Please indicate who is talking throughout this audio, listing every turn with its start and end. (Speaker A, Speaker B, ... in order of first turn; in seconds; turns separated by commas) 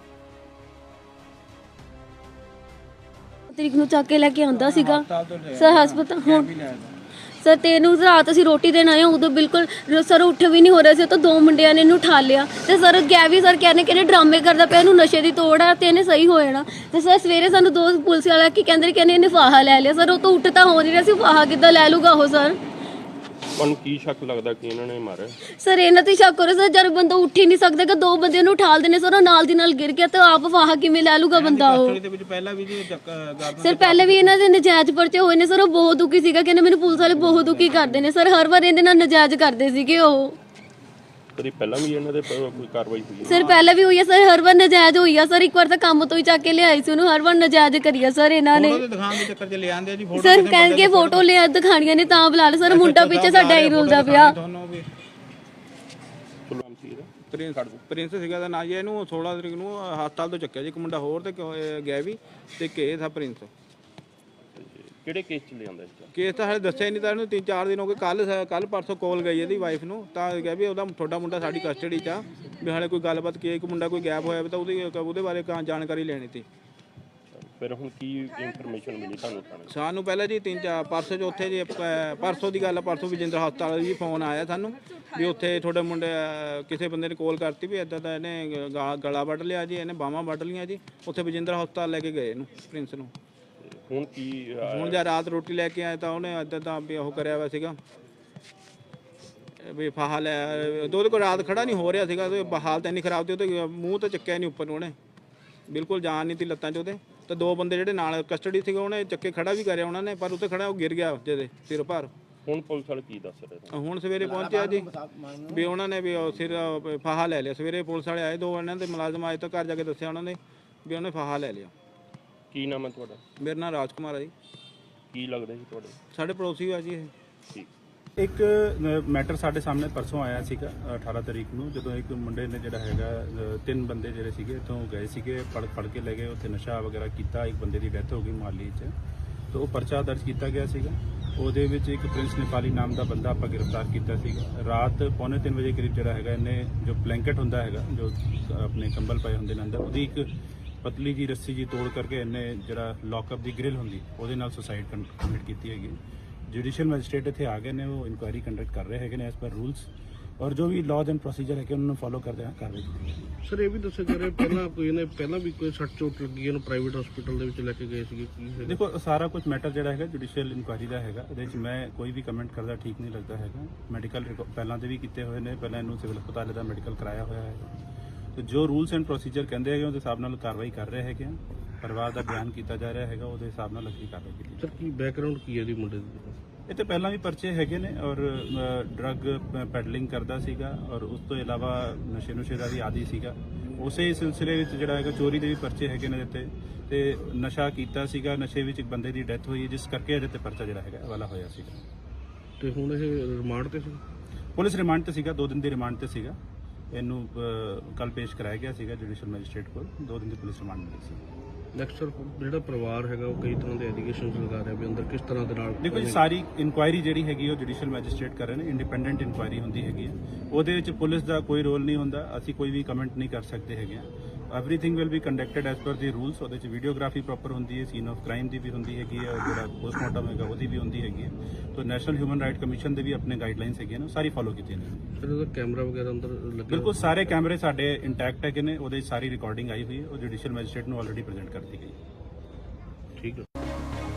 Speaker A: 3.5-6.5, Speaker B: 4.5-6.9, Speaker A: 7.4-22.6, Speaker C: 23.5-25.4, Speaker A: 25.6-32.0, Speaker B: 31.3-34.4, Speaker A: 33.5-40.4, Speaker B: 37.0-37.9, Speaker C: 41.3-43.3, Speaker A: 43.2-48.8, Speaker B: 43.2-43.7, Speaker B: 48.5-51.2, Speaker A: 50.1-54.4, Speaker B: 52.6-54.9, Speaker C: 56.5-57.1, Speaker B: 57.3-63.5, Speaker C: 64.5-66.1, Speaker B: 66.1-76.5, Speaker C: 77.3-79.7, Speaker B: 79.7-93.1, Speaker C: 93.6-95.0, Speaker B: 94.6-97.8, Speaker B: 99.6-104.9, Speaker B: 105.7-112.1, Speaker C: 112.4-113.8, Speaker B: 113.7-115.0, Speaker B: 115.5-121.7, Speaker C: 122.5-123.2, Speaker B: 123.4-124.3, Speaker C: 125.1-126.0, Speaker B: 126.1-127.1, Speaker D: 128.2-138.9, Speaker D: 139.5-150.3, Speaker D: 150.8-163.3, Speaker E: 163.4-168.8, Speaker D: 168.6-177.7, Speaker D: 178.3-184.7, Speaker E: 184.6-186.4, Speaker D: 186.7-201.8, Speaker E: 202.6-204.0, Speaker D: 204.6-206.4, Speaker D: 206.9-211.2, Speaker E: 211.7-216.2, Speaker D: 215.8-235.0, Speaker E: 235.2-237.4, Speaker D: 236.7-242.0, Speaker E: 243.2-243.5